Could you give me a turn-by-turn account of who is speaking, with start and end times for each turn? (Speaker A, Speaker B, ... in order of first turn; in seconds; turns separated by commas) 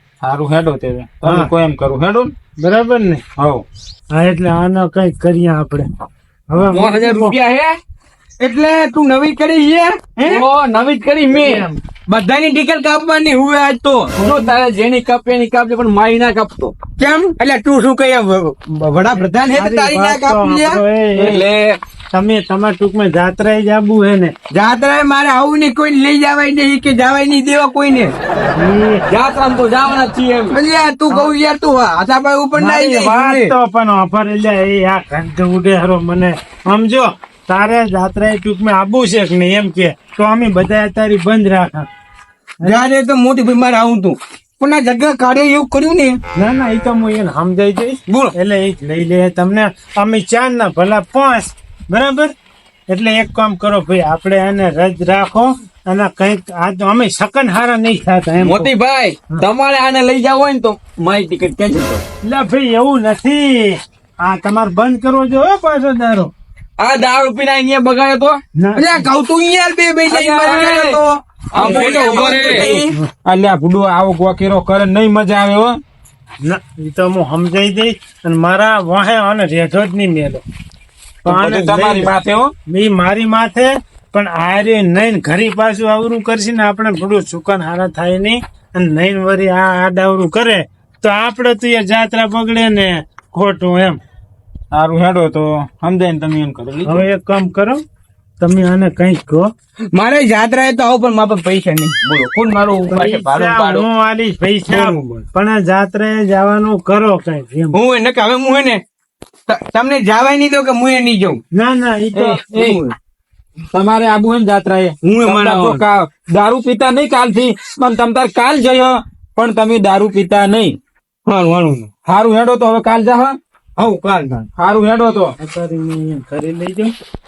Speaker A: 0.2-2.3, Speaker B: 1.2-1.5, Speaker B: 2.6-3.2, Speaker A: 3.4-3.6, Speaker B: 4.1-5.9, Speaker B: 6.5-7.4, Speaker C: 6.7-7.8, Speaker D: 8.4-10.5, Speaker C: 10.2-11.7, Speaker B: 11.3-11.8, Speaker D: 12.1-13.9, Speaker C: 13.9-16.7, Speaker B: 14.2-14.6, Speaker D: 17.0-20.8, Speaker B: 19.1-21.4, Speaker A: 21.2-21.5, Speaker C: 21.2-21.8, Speaker B: 22.1-24.3, Speaker D: 24.5-28.1, Speaker B: 28.6-29.1, Speaker C: 29.1-30.6, Speaker D: 30.5-33.5, Speaker B: 32.5-41.9, Speaker D: 42.6-46.2, Speaker B: 46.4-52.3, Speaker D: 48.1-48.3, Speaker B: 52.9-58.7, Speaker C: 58.4-62.0, Speaker B: 62.2-66.3, Speaker C: 66.8-68.4, Speaker B: 68.6-69.1, Speaker D: 68.8-72.9, Speaker C: 70.1-71.0, Speaker C: 71.5-72.7, Speaker A: 71.5-75.8, Speaker B: 72.7-73.1, Speaker B: 76.5-80.4, Speaker B: 81.2-82.1, Speaker A: 81.2-82.5, Speaker B: 82.7-94.0, Speaker A: 94.7-97.1, Speaker B: 96.8-97.8, Speaker B: 98.4-99.5, Speaker D: 99.9-103.8, Speaker C: 102.4-102.9, Speaker B: 102.9-107.8, Speaker D: 104.7-105.0, Speaker D: 107.7-108.8, Speaker D: 109.5-111.4, Speaker B: 111.5-112.4, Speaker A: 112.1-112.8, Speaker D: 112.5-113.0, Speaker A: 113.7-120.8, Speaker D: 115.0-115.8, Speaker D: 121.3-121.9, Speaker A: 122.0-123.4, Speaker D: 123.8-124.5, Speaker A: 124.6-125.3, Speaker B: 125.4-126.9